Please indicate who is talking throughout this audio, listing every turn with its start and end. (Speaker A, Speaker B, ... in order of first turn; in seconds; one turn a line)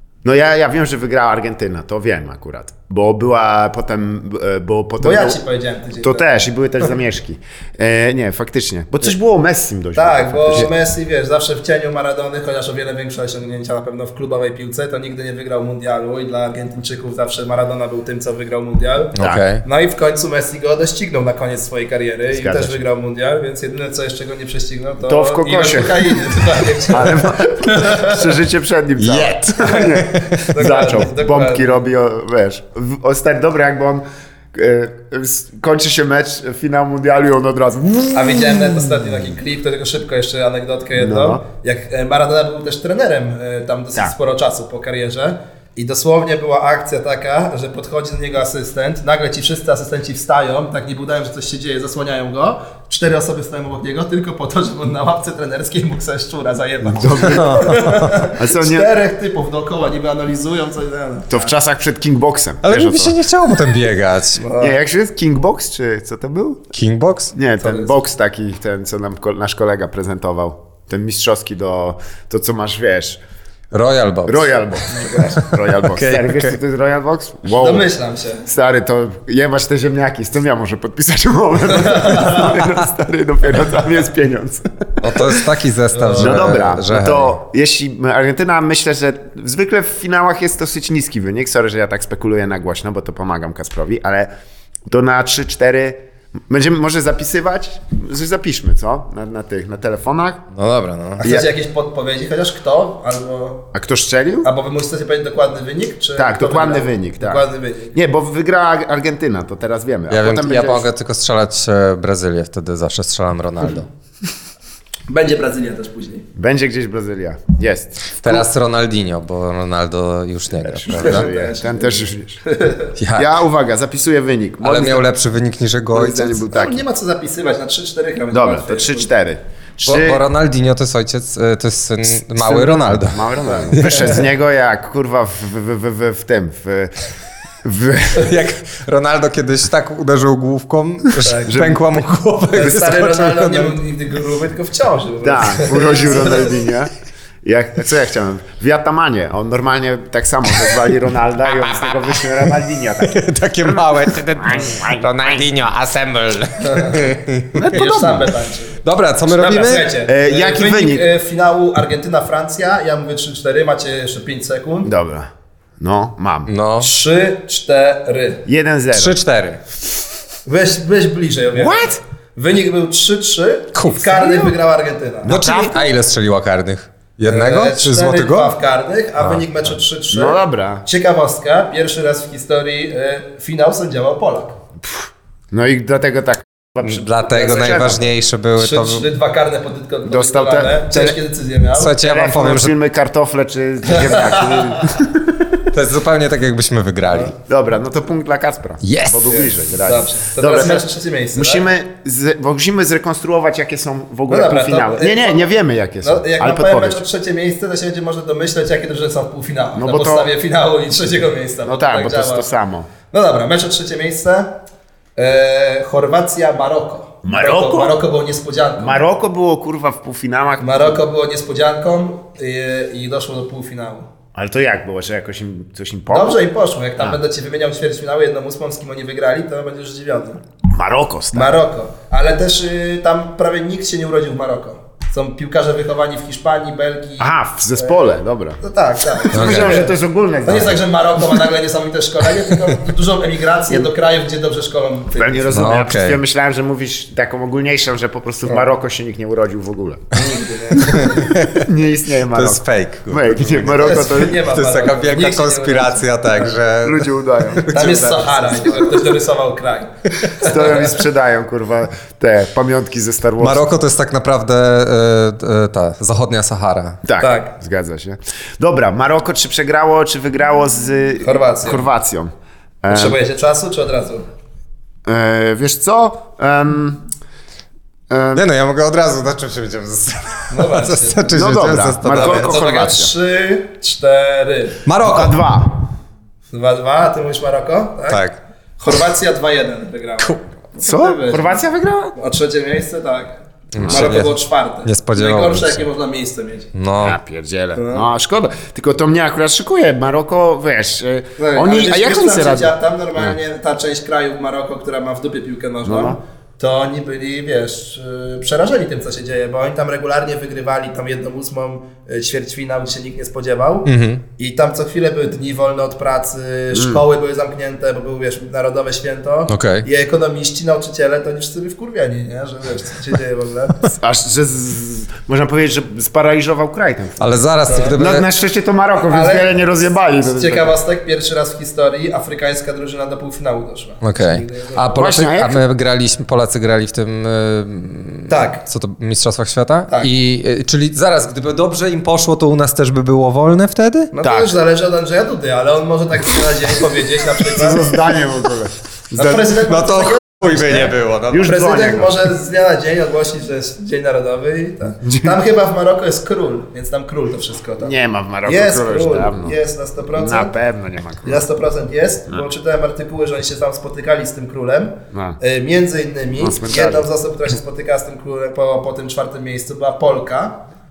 Speaker A: 0.2-5.4
Speaker B: 5.0-6.3
Speaker A: 6.0-10.7
Speaker B: 9.9-28.3
Speaker C: 19.1-19.6
Speaker A: 19.2-19.4
Speaker A: 22.3-22.8
Speaker A: 25.0-38.8
Speaker C: 29.0-30.5
Speaker B: 29.6-31.8
Speaker B: 38.1-61.5
Speaker A: 41.0-41.4
Speaker A: 56.8-58.9
Speaker C: 57.3-58.1
Speaker A: 61.3-63.2
Speaker C: 62.6-64.4
Speaker B: 64.4-64.8
Speaker A: 64.6-66.7
Speaker C: 66.7-67.3
Speaker A: 67.3-73.2
Speaker B: 67.6-68.0
Speaker C: 73.7-74.5
Speaker A: 74.2-77.9
Speaker B: 74.9-75.3
Speaker C: 75.8-76.6
Speaker B: 77.5-78.5
Speaker A: 78.5-85.4
Speaker B: 81.7-82.5
Speaker C: 85.0-87.3
Speaker B: 85.9-86.5
Speaker A: 86.2-94.3
Speaker A: 94.9-100.5
Speaker C: 100.5-101.2
Speaker A: 101.2-101.5
Speaker B: 101.2-103.7
Speaker A: 103.7-104.5
Speaker B: 104.4-108.0
Speaker A: 106.2-110.9
Speaker C: 110.1-113.9
Speaker B: 115.1-116.3
Speaker A: 116.3-118.5
Speaker C: 118.2-121.3
Speaker A: 120.6-122.4
Speaker B: 121.0-122.9
Speaker C: 123.0-123.3
Speaker A: 123.1-125.1
Speaker C: 124.6-126.4
Speaker A: 125.9-126.8
Speaker B: 126.5-129.1
Speaker A: 128.3-130.2
Speaker C: 129.8-134.2
Speaker A: 132.3-136.9
Speaker B: 133.4-134.0
Speaker A: 137.6-138.4
Speaker C: 138.1-143.8
Speaker B: 141.2-141.7
Speaker A: 141.4-142.0
Speaker B: 142.5-146.6
Speaker A: 145.2-146.9
Speaker A: 147.4-155.5
Speaker C: 151.4-157.8
Speaker B: 156.6-157.0
Speaker A: 157.5-158.3
Speaker B: 157.7-164.9
Speaker C: 158.8-159.9
Speaker A: 160.0-161.1
Speaker A: 164.8-166.5
Speaker C: 166.5-166.9
Speaker B: 166.8-168.4
Speaker A: 168.4-169.2
Speaker C: 168.9-169.6
Speaker B: 170.4-175.4
Speaker A: 171.5-172.0
Speaker C: 173.7-174.5
Speaker A: 175.2-175.9
Speaker C: 175.2-178.5
Speaker B: 177.2-184.6
Speaker C: 179.2-179.5
Speaker A: 180.1-180.8
Speaker A: 184.9-188.0
Speaker C: 186.8-189.0
Speaker B: 188.6-192.0
Speaker A: 190.0-191.2
Speaker C: 191.8-192.7
Speaker A: 192.0-195.5
Speaker B: 193.9-194.8
Speaker C: 195.7-197.3
Speaker A: 197.4-207.0
Speaker C: 198.8-199.3
Speaker B: 199.3-201.7
Speaker B: 204.3-212.5
Speaker A: 209.7-210.3
Speaker A: 211.7-212.9
Speaker B: 213.1-214.6
Speaker B: 215.2-219.0
Speaker A: 217.2-218.0
Speaker A: 218.8-221.0
Speaker B: 220.6-224.1
Speaker A: 224.3-226.4
Speaker B: 226.1-230.4
Speaker A: 230.7-231.6
Speaker B: 231.3-245.6
Speaker A: 237.2-238.6
Speaker A: 239.2-240.8
Speaker C: 239.3-239.8
Speaker A: 245.2-250.1
Speaker C: 245.5-246.2
Speaker B: 250.1-251.3
Speaker C: 250.8-251.7
Speaker A: 251.5-254.4
Speaker C: 252.3-258.8
Speaker B: 253.8-256.5
Speaker A: 256.8-258.2
Speaker B: 257.7-260.9
Speaker A: 260.4-263.7
Speaker C: 263.4-267.0
Speaker A: 267.0-272.3
Speaker B: 267.2-267.5
Speaker B: 271.2-271.9
Speaker A: 272.8-273.2
Speaker B: 272.9-274.3
Speaker A: 275.1-277.1
Speaker A: 278.1-278.4
Speaker C: 278.3-282.5
Speaker B: 280.5-281.4
Speaker A: 281.3-283.1
Speaker B: 282.1-284.9
Speaker C: 284.9-285.4
Speaker A: 285.0-285.9
Speaker B: 286.5-288.2
Speaker C: 288.1-288.4
Speaker B: 288.8-291.6
Speaker A: 290.8-292.1
Speaker B: 292.1-296.7
Speaker C: 293.7-295.8
Speaker A: 293.8-294.1
Speaker C: 296.7-297.2
Speaker A: 297.0-303.4
Speaker B: 297.8-298.1
Speaker B: 301.4-323.8
Speaker A: 305.8-306.2
Speaker C: 313.9-314.2
Speaker A: 316.7-317.0
Speaker C: 319.5-319.8
Speaker A: 323.9-327.4
Speaker C: 327.2-328.3
Speaker B: 327.7-327.9
Speaker A: 327.9-330.7
Speaker B: 329.1-329.5
Speaker B: 330.2-334.9
Speaker C: 334.0-344.1
Speaker A: 334.9-335.6
Speaker B: 338.3-338.6
Speaker B: 344.1-347.9
Speaker A: 344.2-344.5
Speaker A: 347.4-349.4
Speaker B: 349.1-350.9
Speaker C: 349.5-351.6
Speaker A: 351.3-352.1
Speaker B: 351.4-357.9
Speaker A: 355.0-355.3
Speaker A: 357.8-359.6
Speaker B: 358.4-360.5
Speaker A: 360.1-361.4
Speaker B: 361.2-370.6
Speaker A: 365.1-365.4
Speaker A: 366.4-367.1